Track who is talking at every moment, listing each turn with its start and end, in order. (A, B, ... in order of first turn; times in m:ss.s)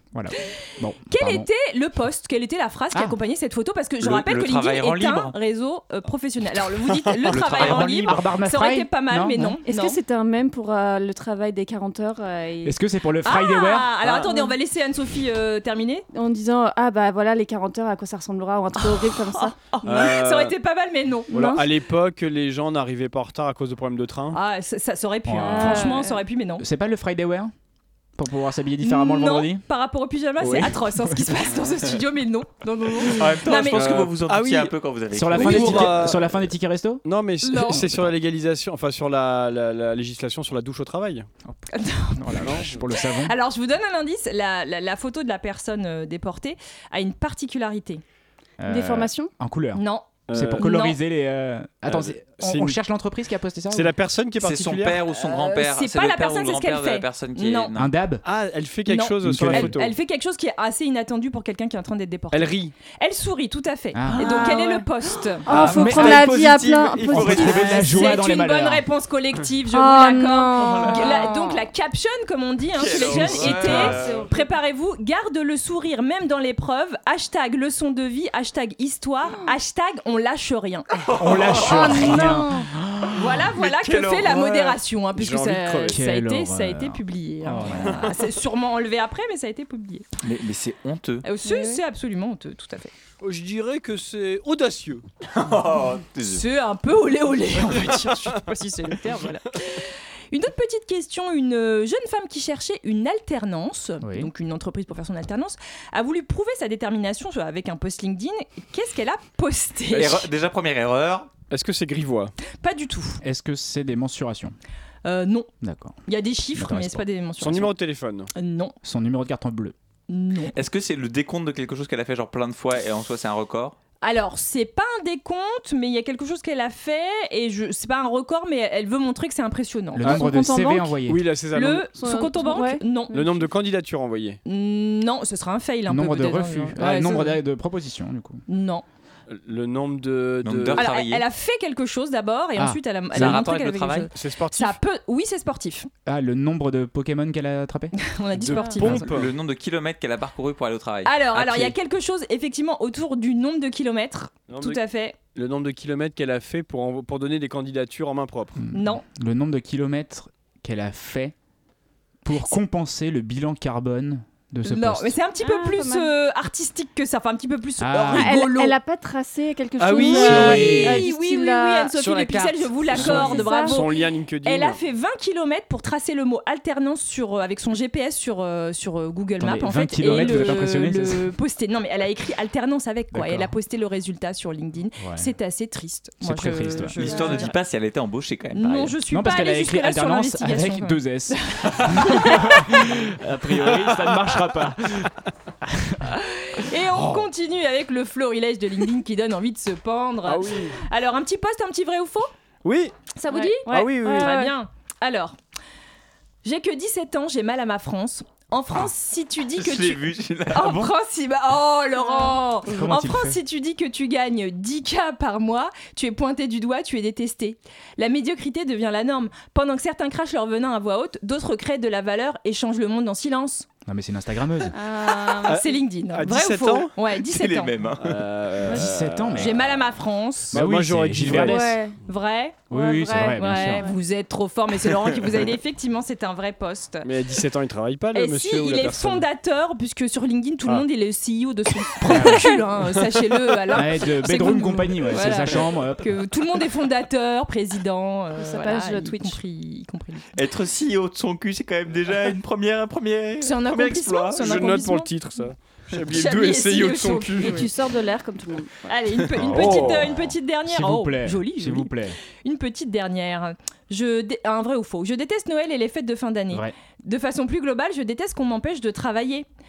0:00.1-0:01.5 A
0:01.1-0:10.0 B
0:04.0-0:05.4 C
0:07.3-0:08.3 C
0:07.6-0:09.6 A
0:09.7-0:12.8 D
0:12.6-0:14.0 A
0:13.2-0:16.1 B
0:14.0-0:14.3 E
0:16.1-0:19.8 D
0:18.8-0:21.4 B
0:19.8-0:20.6 E
0:21.3-0:21.7 D
0:21.3-0:24.4 E
0:24.3-0:26.6 B
0:25.3-0:26.0 A
0:25.4-0:26.2 D
0:26.6-0:27.5 A
0:28.2-0:29.6 A
0:28.8-0:34.1 B
0:30.4-0:31.4 A
0:33.1-0:36.2 C
0:33.7-0:34.7 E
0:35.1-0:37.0 A
0:35.3-0:36.4 E
0:35.4-0:35.7 B
0:37.0-0:41.3 E
0:37.4-0:37.9 B
0:37.7-0:38.1 A
0:41.5-0:43.4 A
0:41.7-0:48.0 B
0:42.4-0:42.8 E
0:48.6-0:54.0 A
0:48.7-0:49.3 D
0:49.8-0:51.0 B
0:50.3-0:50.7 E
0:51.9-0:52.8 E
0:53.7-0:55.0 E
0:54.4-0:58.0 C
0:55.2-0:57.7 B
0:57.8-0:58.2 A
0:58.2-1:00.0 E
0:58.9-1:05.5 B
0:59.2-0:59.8 A
1:02.3-1:02.7 E
1:03.9-1:04.5 A
1:04.1-1:04.9 D
1:05.4-1:07.8 D
1:05.5-1:06.4 A
1:05.7-1:07.3 E
1:05.9-1:08.1 C
1:07.1-1:08.8 A
1:07.5-1:22.5 B
1:09.7-1:11.6 D
1:10.6-1:11.1 C
1:12.7-1:14.3 C
1:13.0-1:14.0 E
1:13.5-1:13.9 A
1:21.0-1:22.0 C
1:21.2-1:23.3 A
1:21.7-1:22.7 D
1:23.1-1:30.1 B
1:23.6-1:24.5 C
1:24.3-1:26.0 E
1:25.9-1:28.1 A
1:30.2-1:31.2 C
1:31.2-1:32.9 B
1:31.4-1:31.8 D
1:33.2-1:35.0 E
1:35.3-1:36.5 C
1:36.3-1:50.3 B
1:44.0-1:44.3 A
1:49.9-1:51.3 C
1:51.5-1:52.3 E
1:52.6-1:53.2 B
1:53.2-1:54.6 A
1:55.0-1:55.5 B
1:55.6-1:56.0 A
1:56.1-1:57.7 B
1:56.5-1:57.0 A
1:57.4-1:58.3 E
1:58.3-1:58.8 B
1:58.8-1:59.8 A
2:00.1-2:00.6 B
2:00.5-2:03.8 C
2:04.0-2:10.3 B
2:10.0-2:11.3 A
2:10.0-2:11.0 D
2:11.0-2:11.9 E
2:11.5-2:13.4 B
2:12.0-2:13.3 D
2:13.1-2:14.4 E
2:14.4-2:17.4 B
2:15.9-2:18.4 A
2:18.5-2:18.8 B
2:19.3-2:20.9 E
2:20.4-2:21.2 C
2:20.8-2:25.9 B
2:22.6-2:23.4 A
2:23.1-2:24.1 C
2:24.1-2:24.8 E
2:26.1-2:27.9 A
2:28.0-2:29.1 B
2:28.4-2:29.3 E
2:29.0-2:31.7 C
2:31.0-2:35.2 B
2:34.5-2:34.8 E
2:35.3-2:38.6 E
2:38.6-2:41.3 A
2:38.7-2:39.0 B
2:42.2-2:45.2 A
2:44.6-2:48.8 B
2:45.4-2:46.1 D
2:47.8-2:48.4 A
2:48.1-2:52.0 D
2:49.8-2:51.0 E
2:49.9-3:07.6 B
2:50.1-2:51.1 A
2:52.0-2:54.8 E
2:52.9-2:53.8 D
2:59.4-3:01.3 A
3:03.1-3:03.5 A
3:05.0-3:05.3 A
3:06.2-3:07.0 A
3:07.0-3:09.0 C
3:07.0-3:07.5 D
3:08.5-3:12.9 B
3:09.1-3:15.1 A
3:15.6-3:16.1 A
3:16.1-3:22.3 B
3:16.8-3:17.3 A
3:20.3-3:20.8 E
3:22.6-3:22.9 E
3:23.2-3:25.4 B
3:23.3-3:24.5 D
3:23.7-3:24.4 E
3:26.4-3:43.7 B
3:29.6-3:30.9 C
3:32.0-3:32.4 D
3:32.7-3:33.4 A
3:43.9-3:44.8 A
3:44.7-3:45.7 D
3:45.0-3:47.7 B
3:45.5-3:46.9 E
3:47.2-3:48.2 C
3:48.0-3:49.5 E
3:48.7-3:49.6 A
3:49.3-3:50.6 B
3:50.5-3:51.7 E
3:50.5-3:51.8 A
3:51.4-3:52.0 D
3:52.0-3:52.7 B
3:52.7-3:53.9 A
3:52.7-3:54.0 D
3:53.4-3:57.1 B
3:57.0-3:59.3 E
3:58.1-4:10.3 B
4:02.1-4:02.4 A
4:03.7-4:06.1 A
4:08.4-4:09.4 D
4:10.4-4:14.5 C
4:13.4-4:15.1 B
4:14.3-4:17.7 E
4:16.1-4:17.7 B
4:17.4-4:18.9 D
4:18.9-4:29.5 B
4:19.4-4:22.2 A
4:19.5-4:20.2 E